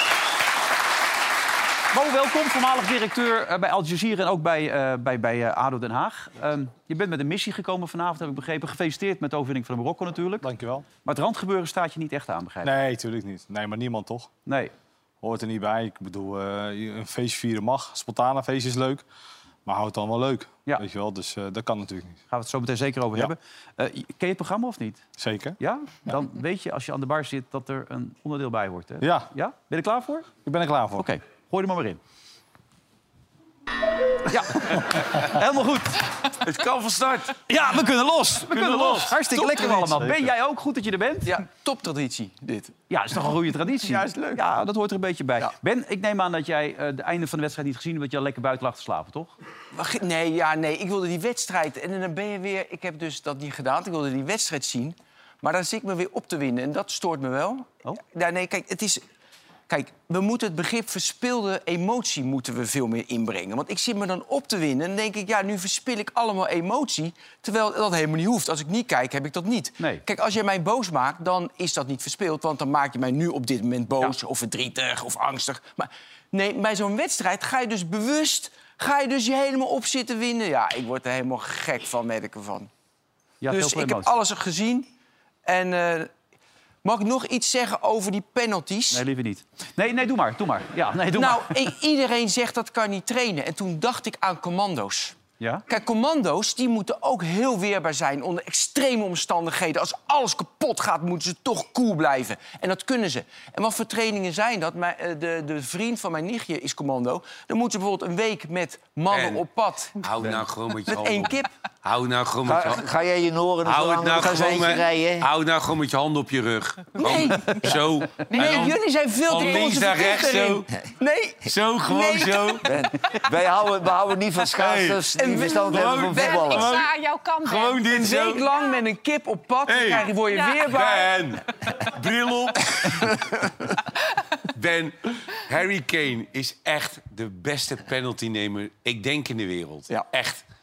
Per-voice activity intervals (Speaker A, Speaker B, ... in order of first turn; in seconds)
Speaker A: 1.9-10.5, 11.0-12.8, 14.5-14.7, 22.3-25.0, 25.6-30.3, 30.9-32.0, 34.3-36.0, 37.5-41.3, 42.9-49.3, 83.4-84.1, 88.9-91.7
Speaker B: 10.4-10.8, 12.6-14.3, 15.2-19.0, 19.6-22.2, 25.2-25.6, 29.0-29.3, 30.4-31.1
Speaker C: 36.4-37.4, 38.5-39.4, 109.1-109.4, 110.0-112.8, 113.7-120.7, 121.5-122.7, 124.6-126.9, 127.4-128.5, 129.7-133.3, 134.5-140.4
Speaker D: 39.4-39.9, 41.2-42.7, 43.8-44.4, 49.8-59.0, 59.7-82.7, 83.5-84.9, 85.5-86.1, 86.8-89.0, 91.1-109.9, 110.9-111.5, 117.0-122.7, 125.1-126.2, 127.8-131.2
Speaker E: 112.5-115.3, 122.6-126.8
Speaker F: 118.3-118.8, 126.1-127.8, 130.2-130.7